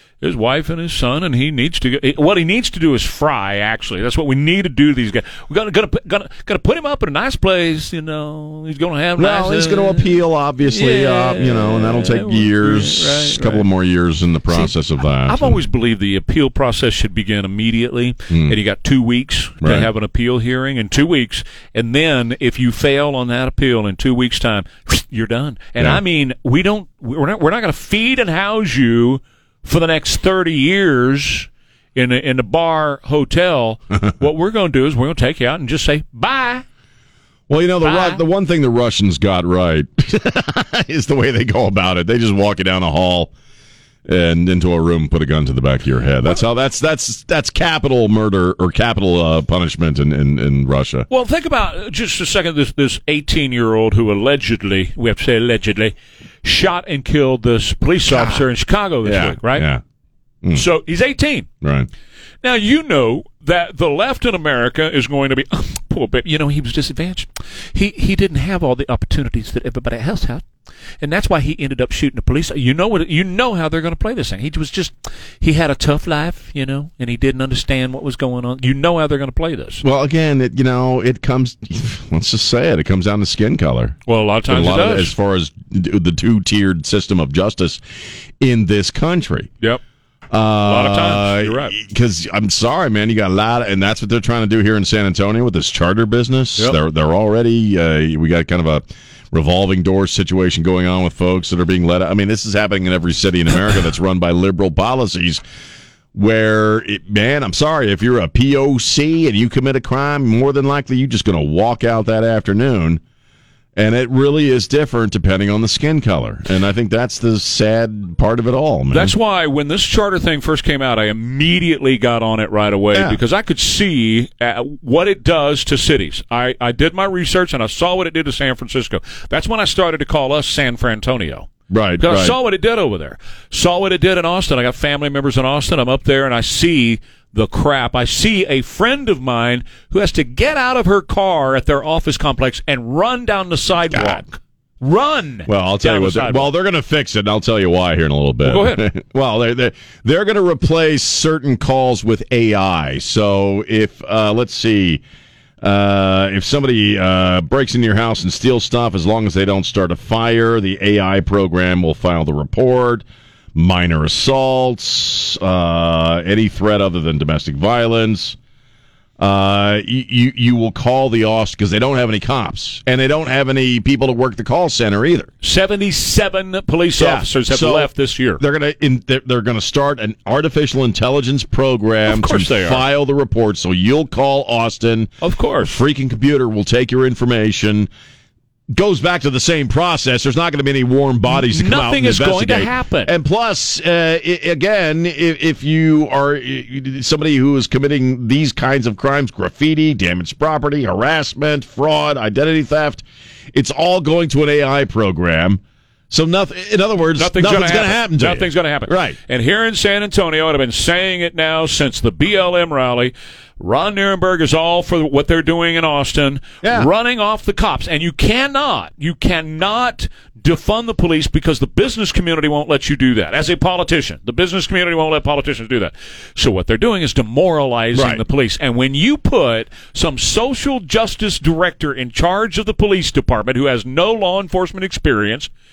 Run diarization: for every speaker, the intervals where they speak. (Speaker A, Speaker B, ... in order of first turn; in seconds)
Speaker A: 0.2-13.7, 14.5-36.6, 37.8-38.2, 51.1-59.7, 60.5-61.5, 62.4-70.4, 71.0-79.8, 84.1-85.1, 90.6-91.8, 118.9-146.5, 148.4-148.8, 175.4-178.4, 182.1-182.8, 185.2-185.8, 191.3-193.1, 207.2-235.5
Speaker B: 9.2-15.6, 18.3-18.6, 19.6-19.9, 37.5-43.3, 44.1-51.1, 58.1-58.5, 59.0-59.8, 61.6-61.9, 79.8-84.0, 84.5-87.8, 88.4-89.5, 90.3-105.4, 106.1-113.0, 113.8-119.1, 122.9-123.2, 131.7-132.4, 143.9-144.2, 145.5-155.0, 155.6-168.4, 169.2-175.3, 177.0-187.9, 188.7-209.2, 216.6-216.9, 227.9-228.2